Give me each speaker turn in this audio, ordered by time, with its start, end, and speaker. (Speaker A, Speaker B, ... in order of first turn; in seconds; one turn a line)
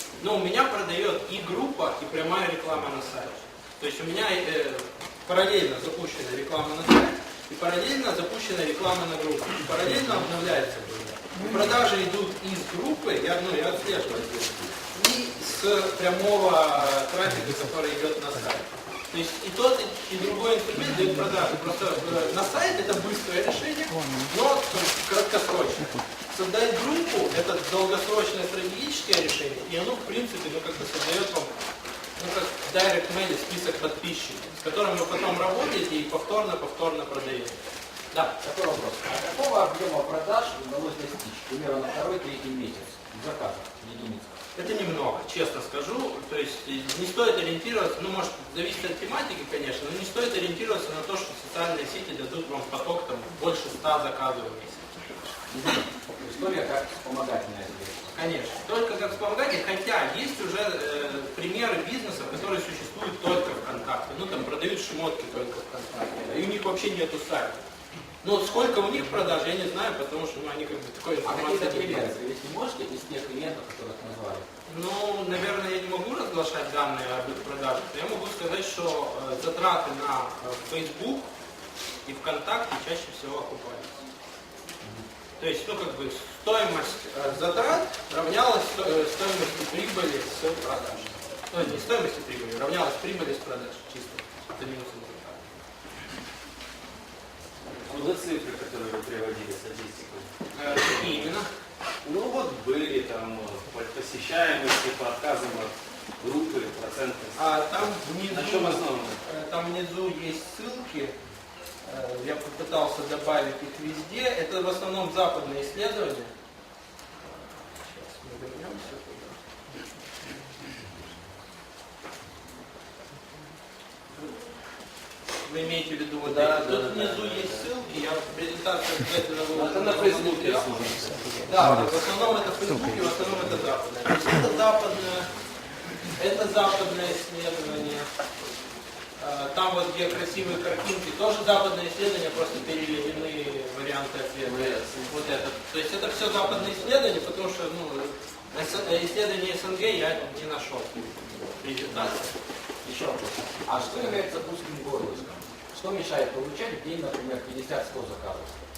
Speaker A: 0.2-37.5
Speaker B: 38.4-44.4
Speaker A: 44.5-54.9
Speaker B: 55.5-58.1
Speaker A: 58.1-67.6
Speaker A: 68.2-72.1
Speaker B: 71.2-74.5
Speaker A: 74.7-81.3
Speaker A: 82.0-84.0
Speaker A: 85.4-95.5
Speaker C: 97.8-101.2
Speaker A: 100.5-101.5
Speaker C: 102.0-107.4
Speaker A: 107.3-111.1
Speaker C: 108.3-109.2
Speaker A: 111.8-116.3
Speaker A: 117.2-119.3
Speaker A: 125.4-135.3
Speaker C: 126.2-127.6
Speaker C: 129.5-131.5
Speaker A: 136.2-138.1
Speaker A: 139.2-152.3
Speaker C: 144.3-145.4
Speaker B: 152.8-158.5